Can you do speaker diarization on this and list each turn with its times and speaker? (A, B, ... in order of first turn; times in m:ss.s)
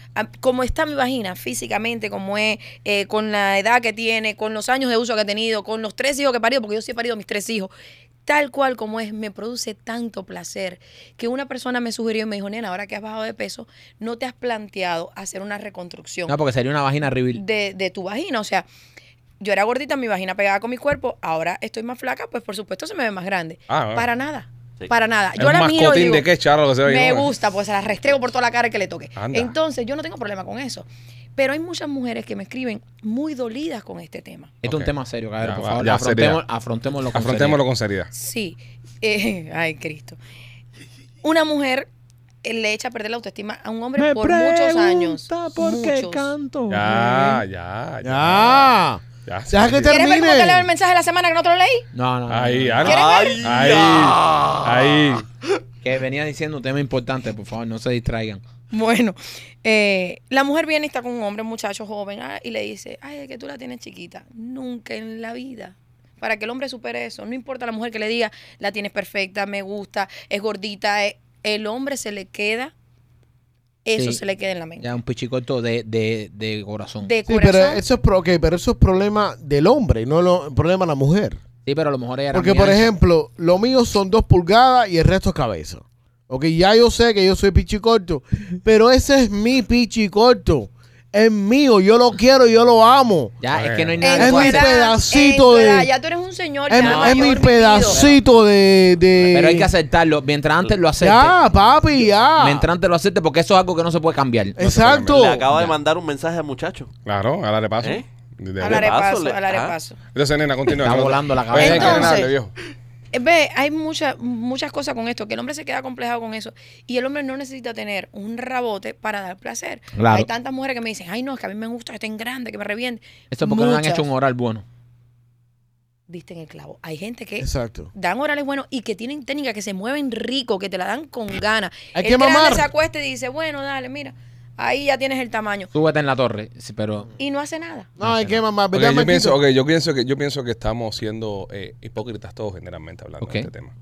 0:00.1-0:07.7 A
0:08.2-0:16.4 A
0:16.3-0:17.4 B
0:17.3-0:18.7 A
0:19.4-0:26.2 A
0:23.7-0:24.1 C
0:25.4-0:27.3 C
0:26.8-0:34.5 A
0:29.2-0:29.5 C
0:34.6-0:37.6 B
0:34.6-0:36.4 C
0:37.1-0:38.1 C
0:38.1-0:40.2 A
0:41.2-0:41.9 A
0:42.4-0:46.3 A
0:44.0-0:47.4 B
0:46.7-0:48.7 C
0:48.0-0:50.7 D
0:49.2-0:50.0 C
0:49.9-0:51.8 A
0:51.9-0:52.9 B
0:52.3-0:55.2 C
0:52.8-0:54.8 E
0:52.8-0:53.5 A
0:55.8-0:58.4 B
0:58.7-1:12.7 A
1:13.8-1:14.9 A
1:14.0-1:14.2 B
1:14.8-1:17.1 B
1:17.0-1:17.8 A
1:17.2-1:21.4 D
1:21.6-1:22.9 B
1:22.3-1:33.3 D
1:33.4-1:34.7 B
1:33.5-1:34.2 C
1:34.0-1:38.0 A
1:34.2-1:35.9 D
1:36.7-1:39.7 D
1:36.8-1:38.2 B
1:39.2-1:41.4 B
1:41.0-1:42.7 D
1:42.4-1:44.6 B
1:44.6-1:45.5 D
1:44.6-1:45.3 C
1:45.1-1:46.9 E
1:47.0-1:49.0 C
1:48.6-1:50.0 A
1:48.6-1:49.7 E
1:50.1-1:52.5 C
1:50.8-1:52.2 B
1:51.5-1:52.3 A
1:53.1-2:04.1 A
1:59.9-2:00.3 B
2:03.3-2:04.6 B
2:06.1-2:15.7 A
2:07.4-2:07.9 D
2:11.9-2:12.7 D
2:15.7-2:17.1 B
2:17.2-2:17.9 A
2:18.0-2:19.4 D
2:18.0-2:18.4 B
2:18.7-2:23.7 C
2:23.2-2:23.5 B